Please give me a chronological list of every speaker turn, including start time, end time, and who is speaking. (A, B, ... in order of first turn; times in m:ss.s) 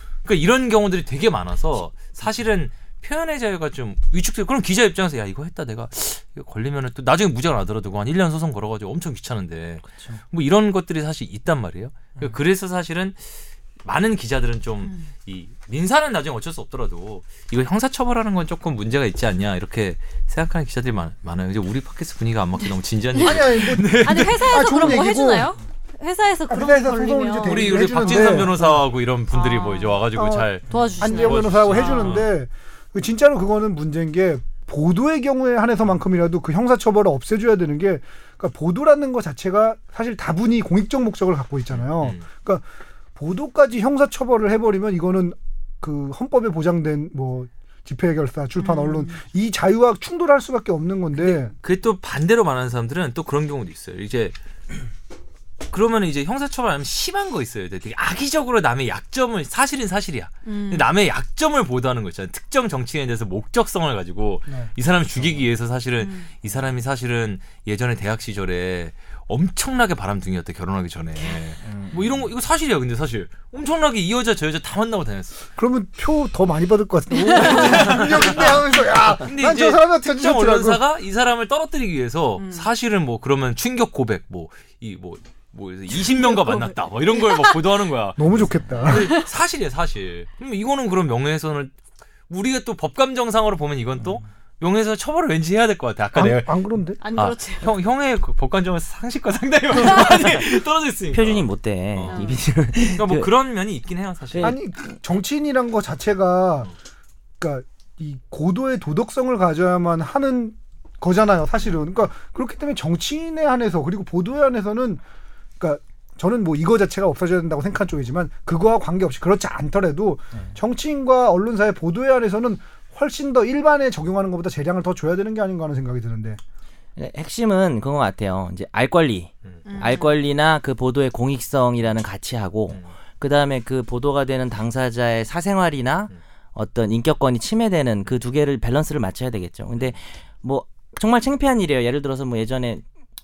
0:00.2-0:13.2 A
0:09.9-0:10.2 B
0:13.8-0:25.1 A
0:23.1-0:28.4 C
0:23.2-0:25.5 D
0:26.5-0:28.8 D
0:27.4-0:32.3 A
0:29.3-0:30.0 C
0:30.1-0:42.6 D
0:30.7-0:32.3 C
0:41.8-0:42.2 A
0:43.2-0:51.5 D
0:48.6-0:49.2 C
0:51.2-0:54.3 A
0:55.7-1:15.4 A
1:00.4-1:00.9 C
1:06.0-1:06.3 C
1:11.6-1:12.0 B
1:15.6-1:20.8 D
1:17.1-1:18.1 C
1:17.3-1:31.7 A
1:22.4-1:22.7 C
1:26.0-1:27.6 C
1:28.2-1:29.1 D
1:28.9-1:29.2 C
1:32.3-1:42.4 A
1:36.1-1:37.0 D
1:37.0-1:37.7 C
1:41.1-1:43.3 B
1:42.1-1:42.4 C
1:42.9-1:44.5 A
1:44.3-1:44.6 B
1:44.4-1:46.7 D
1:47.4-1:55.0 D
1:55.6-2:06.4 D
2:07.0-2:22.8 B
2:09.6-2:10.2 C